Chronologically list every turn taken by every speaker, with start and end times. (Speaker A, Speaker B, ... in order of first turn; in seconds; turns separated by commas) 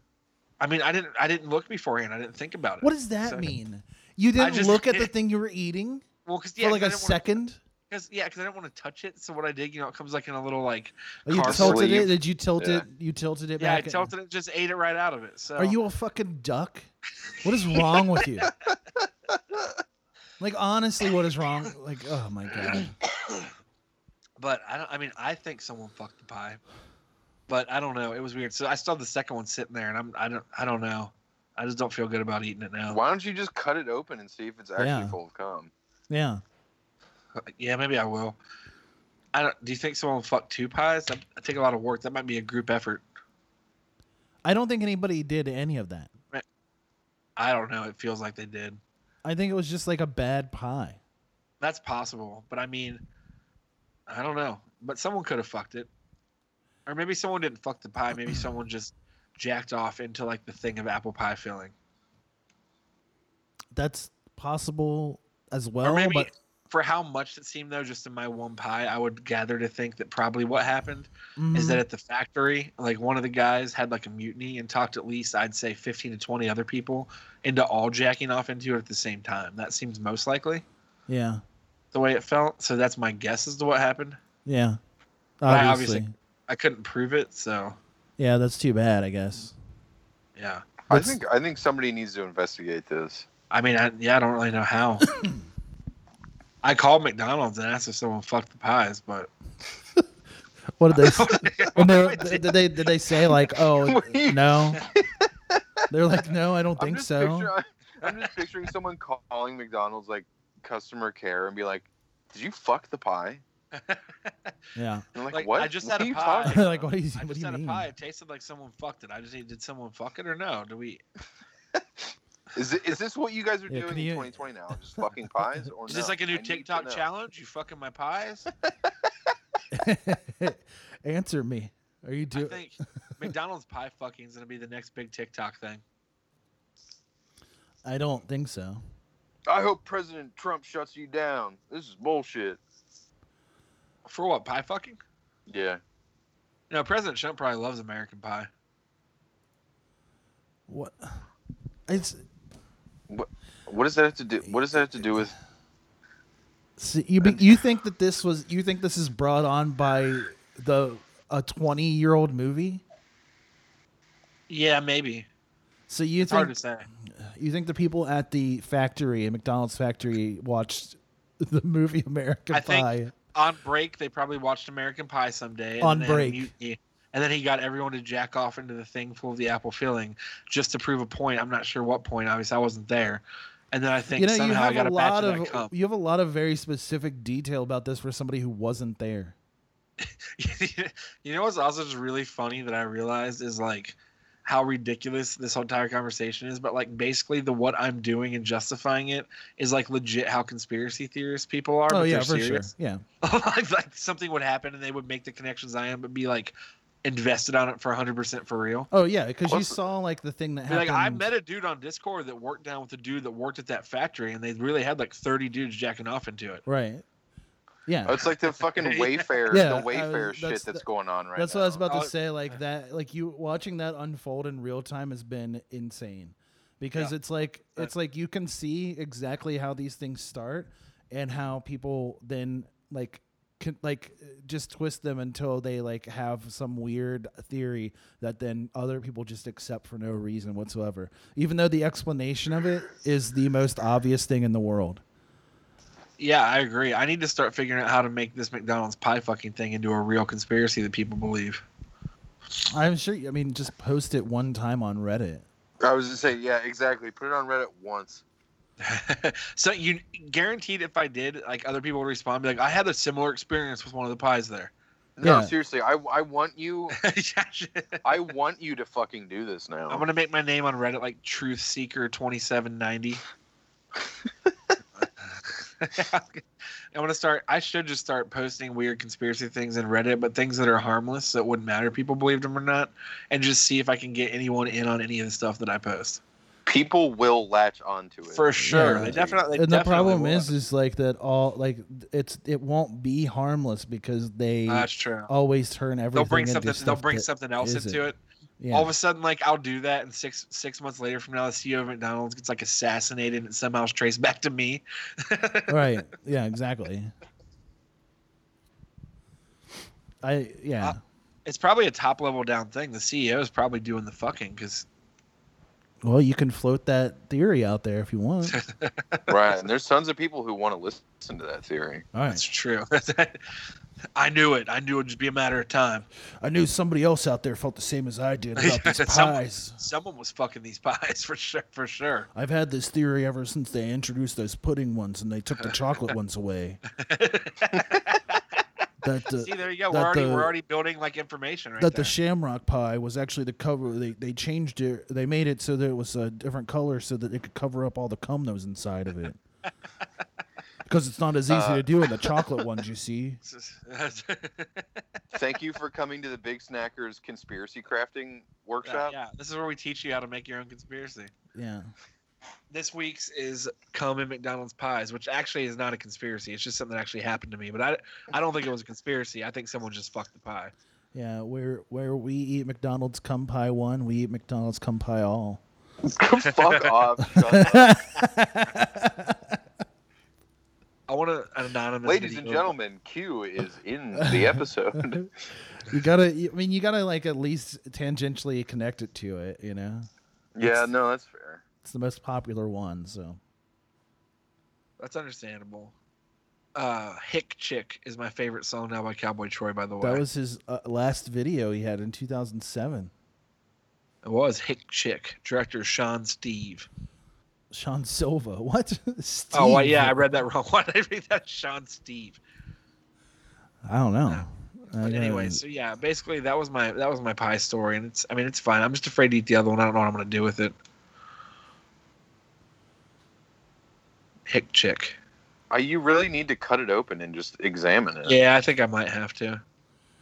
Speaker A: 0.6-3.5, Speaker B: 2.8-6.1, Speaker A: 4.4-5.1, Speaker A: 6.2-7.2, Speaker B: 6.6-7.6, Speaker A: 7.9-11.8, Speaker B: 11.3-14.1, Speaker C: 11.4-12.8, Speaker A: 13.6-15.8, Speaker B: 15.6-16.9, Speaker B: 17.4-18.5, Speaker B: 20.4-22.9, Speaker A: 24.4-26.6, Speaker A: 27.5-33.0, Speaker C: 32.9-35.7, Speaker B: 34.8-35.2, Speaker B: 36.1-36.4, Speaker A: 37.4-38.4, Speaker A: 39.3-43.0, Speaker B: 44.5-46.1, Speaker A: 47.4-48.8, Speaker B: 49.2-51.0, Speaker A: 51.6-53.0, Speaker A: 54.1-55.9, Speaker A: 56.9-61.7, Speaker B: 58.1-58.5, Speaker B: 63.7-66.3, Speaker A: 65.8-80.7, Speaker B: 71.4-71.8, Speaker B: 81.1-81.4, Speaker A: 81.9-84.2, Speaker B: 84.5-84.8, Speaker B: 85.4-86.1, Speaker A: 85.5-87.8, Speaker B: 88.2-89.5, Speaker A: 90.4-90.6, Speaker C: 90.9-93.3, Speaker B: 90.9-91.2, Speaker A: 93.5-95.1, Speaker B: 95.2-95.4, Speaker A: 96.6-99.3, Speaker B: 100.8-104.8, Speaker A: 100.9-102.7, Speaker C: 103.8-105.0, Speaker B: 105.9-107.5, Speaker C: 106.8-113.4, Speaker A: 113.7-114.5, Speaker B: 114.8-115.1, Speaker C: 115.2-116.7, Speaker A: 115.3-121.0, Speaker B: 116.5-117.9, Speaker C: 122.5-127.0, Speaker B: 123.7-124.4, Speaker A: 125.9-128.5, Speaker B: 129.7-132.7, Speaker A: 132.3-135.8, Speaker B: 137.8-138.8, Speaker C: 139.5-142.6, Speaker A: 144.1-145.0, Speaker C: 145.5-145.8, Speaker A: 146.7-148.5, Speaker B: 150.7-151.2, Speaker B: 151.9-152.2, Speaker C: 153.1-155.3, Speaker B: 154.4-155.3, Speaker B: 156.8-162.8, Speaker A: 164.5-165.3, Speaker B: 165.9-173.1, Speaker A: 166.2-166.9, Speaker A: 172.5-185.7, Speaker B: 175.8-176.5, Speaker B: 184.1-189.4, Speaker A: 190.0-208.9, Speaker B: 201.9-203.0, Speaker B: 208.9-211.3, Speaker C: 209.5-209.8, Speaker A: 210.7-216.6, Speaker B: 216.7-217.0, Speaker B: 217.9-218.2, Speaker C: 218.1-221.8, Speaker A: 218.8-219.5, Speaker B: 219.5-245.0, Speaker A: 221.9-222.1, Speaker A: 246.2-251.7, Speaker B: 252.7-255.5, Speaker C: 255.8-258.2, Speaker A: 258.8-264.7, Speaker C: 265.2-267.0, Speaker B: 265.2-265.5, Speaker A: 267.0-268.1, Speaker C: 268.1-270.1, Speaker A: 269.9-273.2, Speaker A: 275.0-286.2, Speaker C: 286.7-289.4, Speaker A: 288.3-290.5, Speaker B: 288.6-298.1, Speaker A: 294.7-295.3, Speaker A: 296.1-298.2, Speaker B: 298.6-298.9, Speaker A: 298.7-305.9, Speaker B: 305.7-307.1, Speaker B: 310.2-311.0, Speaker A: 310.8-314.9, Speaker B: 316.0-318.6, Speaker A: 318.5-319.3, Speaker C: 319.3-322.1, Speaker B: 322.1-322.4, Speaker A: 322.3-323.5, Speaker A: 324.2-326.1, Speaker B: 326.4-329.8, Speaker A: 328.6-332.3, Speaker B: 332.4-336.8, Speaker A: 335.6-336.1, Speaker A: 337.0-338.4, Speaker B: 339.0-340.5, Speaker A: 339.4-342.1, Speaker B: 341.8-349.4, Speaker B: 350.9-353.4, Speaker C: 351.5-351.9, Speaker A: 353.4-355.0, Speaker C: 355.3-359.1, Speaker A: 358.8-361.3, Speaker B: 361.5-361.9, Speaker A: 362.7-370.7, Speaker B: 371.1-375.6, Speaker C: 376.0-378.0, Speaker A: 376.5-376.9, Speaker B: 377.3-379.6, Speaker A: 381.1-382.8, Speaker C: 382.1-385.3, Speaker B: 384.1-385.3, Speaker B: 385.9-390.1, Speaker C: 390.6-391.6, Speaker B: 391.8-393.4, Speaker A: 395.0-395.9, Speaker A: 396.8-400.2, Speaker B: 400.0-403.1, Speaker A: 404.2-406.9, Speaker B: 407.7-410.2, Speaker A: 409.5-412.4, Speaker B: 413.9-415.6, Speaker A: 415.0-420.8, Speaker A: 424.5-425.2, Speaker C: 425.7-428.4, Speaker A: 428.2-429.6